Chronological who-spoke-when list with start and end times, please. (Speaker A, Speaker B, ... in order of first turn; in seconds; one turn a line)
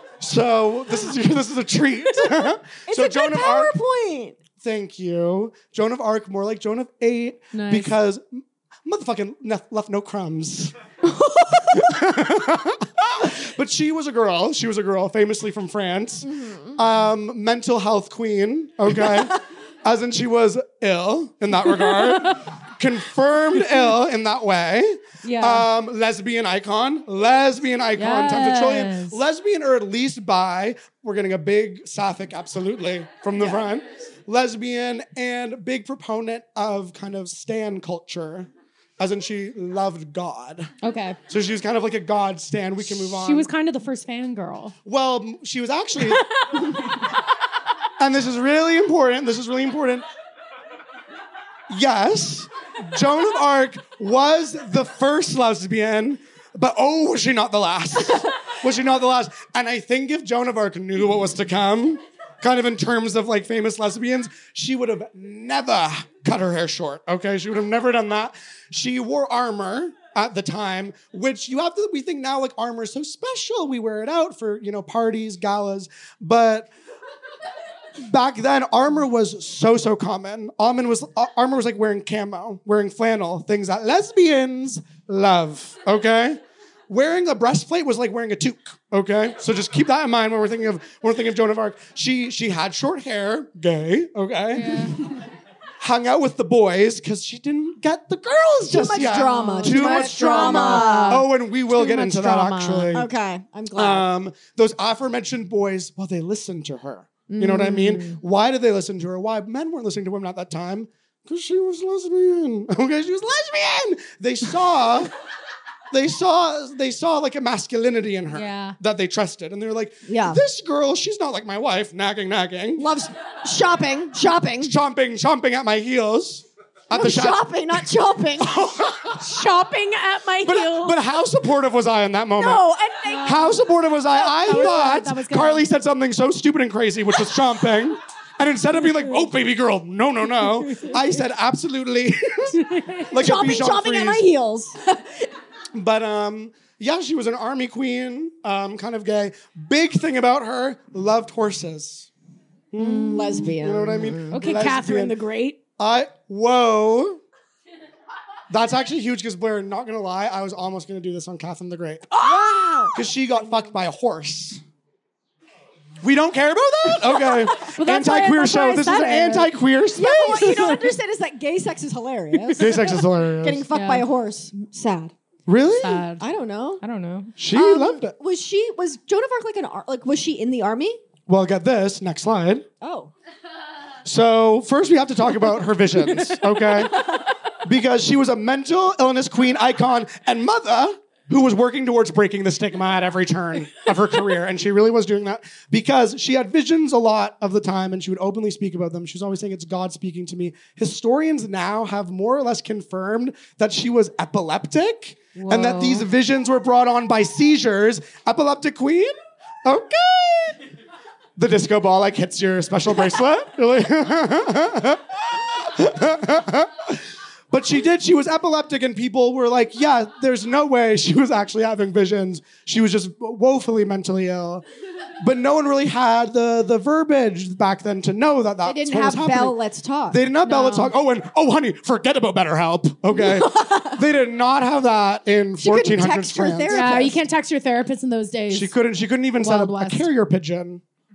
Speaker A: 0.2-3.7
Speaker B: 2.9-4.4
Speaker A: 4.6-10.7
Speaker C: 7.5-7.9
Speaker B: 11.2-11.7
Speaker A: 11.7-40.7
Speaker B: 16.4-16.7
Speaker C: 21.6-22.4
Speaker C: 23.6-23.9
Speaker C: 25.2-25.7
Speaker C: 27.9-29.2
Speaker C: 33.4-33.6
Speaker C: 40.8-41.2
Speaker A: 41.3-43.5
Speaker C: 42.8-44.7
Speaker A: 44.8-46.2
Speaker A: 48.0-50.0
Speaker A: 51.7-76.7
Speaker A: 78.0-95.0
Speaker C: 94.5-95.0
Speaker A: 95.8-103.1
Speaker B: 98.7-101.3
Speaker C: 99.2-102.9
Speaker B: 102.8-104.1
Speaker A: 103.7-115.1
Speaker B: 107.3-108.2
Speaker A: 115.9-122.8
Speaker C: 118.3-118.8
Speaker B: 120.0-120.4
Speaker B: 122.8-124.7
Speaker A: 124.6-127.9
Speaker B: 126.9-128.6
Speaker A: 128.4-129.5
Speaker C: 129.1-131.0
Speaker A: 130.4-132.7
Speaker B: 132.3-133.5
Speaker C: 133.0-135.7
Speaker A: 133.2-144.2
Speaker C: 138.7-139.2
Speaker C: 140.3-141.0
Speaker C: 142.6-143.1
Speaker B: 143.2-145.2
Speaker A: 145.7-152.1
Speaker A: 152.7-155.2
Speaker C: 152.8-153.5
Speaker B: 152.9-154.5
Speaker C: 154.3-155.6
Speaker A: 155.8-157.2
Speaker A: 158.5-162.1
Speaker B: 162.1-163.0
Speaker A: 162.9-164.6
Speaker A: 166.0-170.8
Speaker C: 167.6-169.6
Speaker B: 169.9-175.1
Speaker C: 170.2-170.9
Speaker C: 172.4-172.9
Speaker A: 172.6-173.7
Speaker C: 173.7-174.1
Speaker A: 175.5-176.1
Speaker C: 175.7-176.2
Speaker B: 176.2-176.8
Speaker C: 176.8-177.4
Speaker A: 177.4-178.2
Speaker B: 177.4-181.0
Speaker A: 181.3-182.7
Speaker B: 182.8-183.1
Speaker A: 184.0-186.9
Speaker A: 187.6-210.6
Speaker C: 205.3-206.1
Speaker A: 211.4-217.0
Speaker A: 217.5-224.6
Speaker A: 225.2-229.6
Speaker B: 228.6-230.2
Speaker A: 230.1-236.8
Speaker C: 230.4-230.9
Speaker B: 233.1-234.0
Speaker B: 235.6-237.2
Speaker C: 236.7-238.8
Speaker A: 238.5-240.8
Speaker C: 239.3-240.1